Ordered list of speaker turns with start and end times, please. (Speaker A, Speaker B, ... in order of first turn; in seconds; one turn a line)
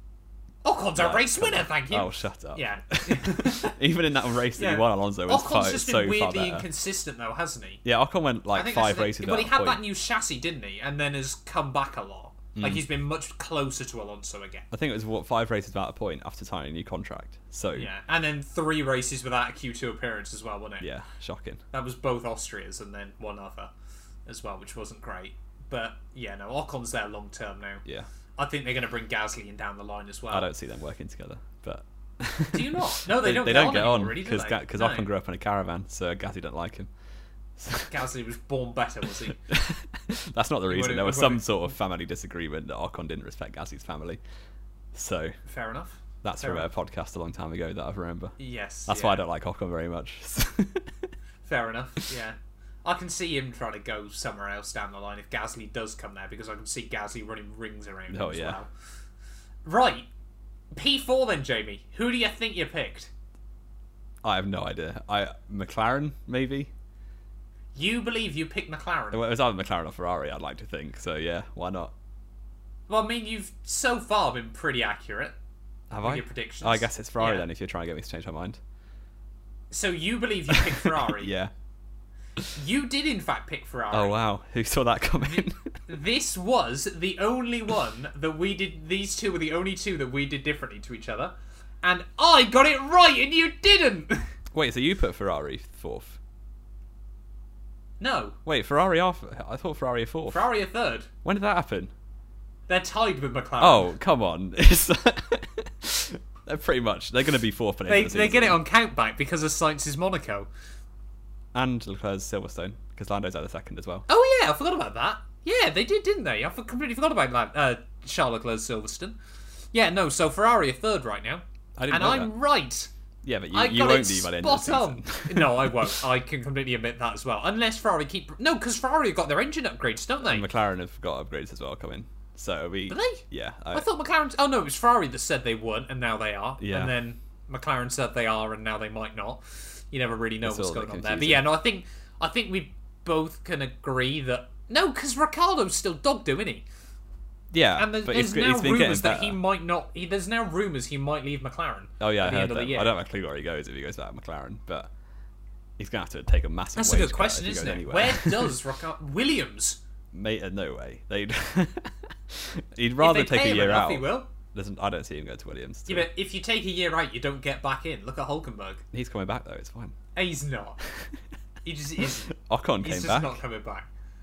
Speaker A: 0.6-3.8
Speaker B: 1.0-6.7
Speaker A: 4.5-7.8
Speaker B: 7.8-9.8
Speaker A: 8.5-14.7
Speaker B: 12.5-12.8
Speaker B: 14.7-17.9
Speaker A: 17.7-20.9
Speaker B: 20.8-21.6
Speaker A: 21.7-23.7
Speaker A: 24.2-27.8
Speaker A: 28.4-30.5
Speaker B: 30.3-36.9
Speaker A: 32.5-35.1
Speaker B: 37.6-37.9
Speaker A: 37.9-39.4
Speaker B: 39.5-44.2
Speaker A: 40.7-41.5
Speaker B: 44.9-45.3
Speaker A: 45.5-46.7
Speaker B: 46.2-48.3
Speaker A: 48.4-49.2
Speaker B: 48.9-51.1
Speaker A: 51.4-58.7
Speaker B: 58.1-58.6
Speaker A: 59.6-60.1
Speaker A: 60.7-63.1
Speaker B: 64.2-66.7
Speaker A: 67.7-69.2
Speaker B: 69.1-71.9
Speaker A: 72.9-75.3
Speaker B: 75.9-78.6
Speaker A: 76.0-77.4
Speaker A: 79.7-81.3
Speaker B: 80.5-81.5
Speaker A: 82.5-84.2
Speaker B: 83.9-85.8
Speaker A: 85.4-94.3
Speaker B: 94.5-96.2
Speaker A: 98.0-98.4
Speaker B: 98.5-100.5
Speaker A: 100.3-101.1
Speaker B: 101.2-101.9
Speaker A: 102.7-103.9
Speaker B: 103.6-108.6
Speaker A: 107.9-110.5
Speaker B: 111.5-114.0
Speaker A: 114.1-119.2
Speaker A: 119.7-122.9
Speaker B: 121.8-122.3
Speaker B: 123.2-126.0
Speaker A: 123.5-130.5
Speaker B: 130.2-133.9
Speaker A: 132.9-146.7
Speaker B: 136.6-136.9
Speaker B: 140.4-141.4
Speaker B: 147.5-149.4
Speaker A: 147.8-152.9
Speaker B: 152.0-154.9
Speaker B: 155.8-158.6
Speaker A: 156.8-159.8
Speaker B: 160.1-166.1
Speaker A: 163.0-164.3
Speaker A: 165.9-168.8
Speaker B: 168.9-169.9
Speaker A: 170.1-170.8
Speaker A: 171.6-173.9
Speaker B: 172.0-173.4